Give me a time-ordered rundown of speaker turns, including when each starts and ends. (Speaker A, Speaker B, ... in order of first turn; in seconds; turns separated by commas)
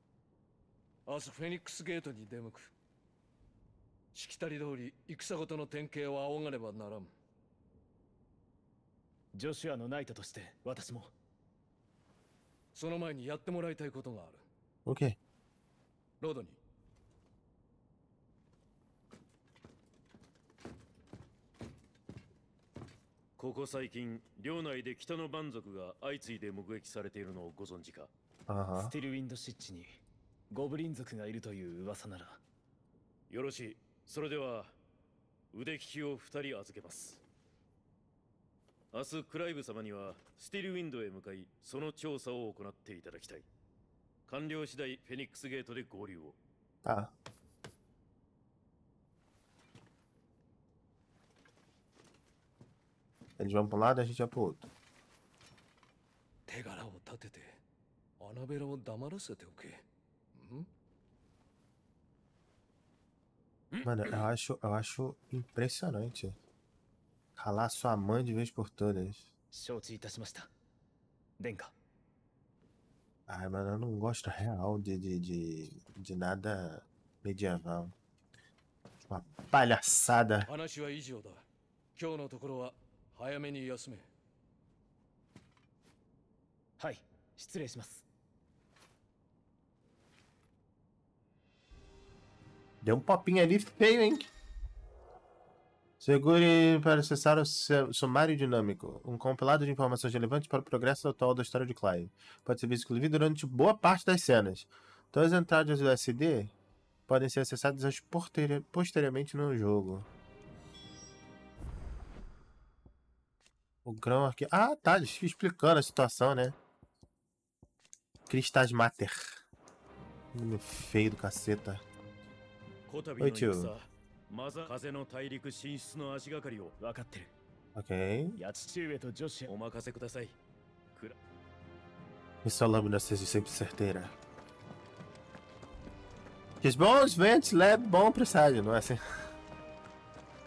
Speaker A: 1.1-2.7, Speaker A: 4.2-7.1, Speaker B: 9.3-11.1, Speaker A: 12.8-14.4, Speaker C: 14.9-15.2, Speaker A: 16.2-16.6, Speaker D: 23.4-28.1, Speaker C: 28.5-28.9, Speaker B: 28.8-30.0, Speaker B: 30.5-32.4, Speaker D: 33.3-34.8, Speaker D: 35.5-37.2, Speaker D: 38.9-43.5, Speaker D: 44.3-46.4, Speaker C: 46.9-47.1, Speaker C: 53.4-54.7, Speaker A: 56.5-57.6, Speaker A: 58.2-59.8, Speaker A: 60.4-60.6, Speaker C: 63.8-66.4, Speaker C: 67.4-69.2, Speaker B: 69.5-70.5, Speaker B: 71.4-71.7, Speaker C: 73.3-77.9, Speaker C: 79.1-80.5, Speaker A: 80.5-81.4, Speaker A: 82.0-84.0, Speaker B: 86.8-88.1, Speaker C: 92.8-94.3, Speaker C: 96.0-106.5, Speaker C: 107.1-110.1, Speaker C: 113.8-116.6, Speaker C: 118.3-119.3, Speaker C: 120.3-121.8, Speaker D: 122.9-126.8, Speaker C: 123.2-123.7, Speaker B: 126.8-127.3, Speaker C: 127.8-128.4, Speaker B: 128.4-129.5, Speaker D: 129.5-130.4, Speaker C: 132.4-134.2, Speaker C: 136.6-139.0